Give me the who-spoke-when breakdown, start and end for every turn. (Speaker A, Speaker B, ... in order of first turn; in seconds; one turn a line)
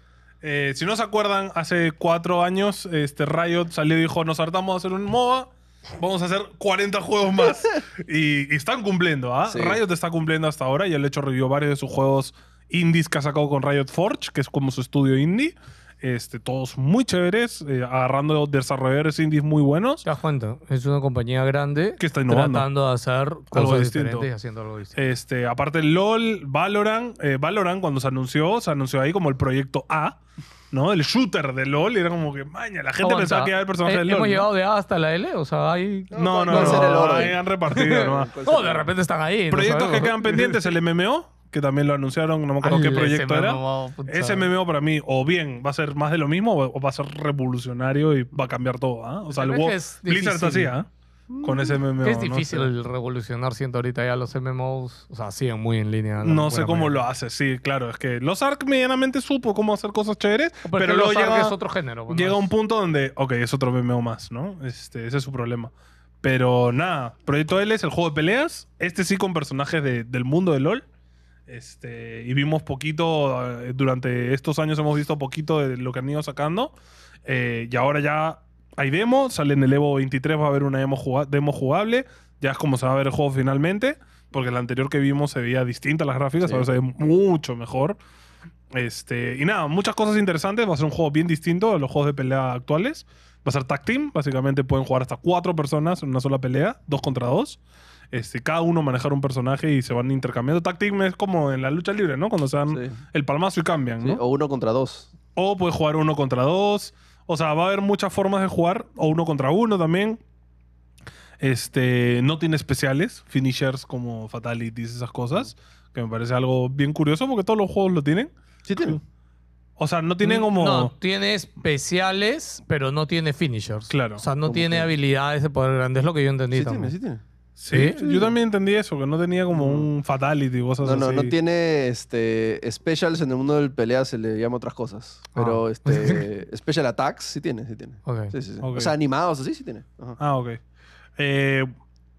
Speaker A: 0.4-20.1
Speaker B: 9.5-9.8
Speaker C: 20.1-25.0
Speaker A: 22.0-22.7
Speaker A: 23.5-24.3
Speaker A: 24.9-30.2
Speaker A: 30.7-34.5
Speaker C: 33.0-40.7
Speaker B: 36.1-38.9
Speaker A: 36.1-38.3
Speaker A: 39.5-50.9
Speaker C: 42.6-44.5
Speaker C: 49.3-50.7
Speaker B: 51.3-51.8
Speaker A: 51.4-52.7
Speaker C: 52.0-57.0
Speaker A: 56.2-61.5
Speaker C: 60.6-62.5
Speaker A: 62.1-70.8
Speaker A: 71.5-76.7
Speaker A: 77.3-88.0
Speaker B: 86.4-86.7
Speaker A: 88.7-97.6
Speaker A: 98.1-104.2
Speaker B: 102.7-103.0
Speaker B: 104.0-105.1
Speaker A: 105.4-110.2
Speaker A: 111.4-119.0
Speaker B: 118.7-119.0
Speaker A: 119.8-120.9
Speaker C: 120.2-126.9
Speaker A: 123.9-124.2
Speaker B: 124.5-124.9
Speaker B: 126.5-127.2
Speaker A: 127.6-131.3
Speaker C: 127.7-128.0
Speaker B: 127.8-128.3
Speaker B: 129.5-129.9
Speaker B: 130.8-140.2
Speaker C: 135.3-136.3
Speaker C: 138.1-138.3
Speaker A: 138.6-138.9
Speaker A: 140.2-140.6
Speaker A: 141.2-141.7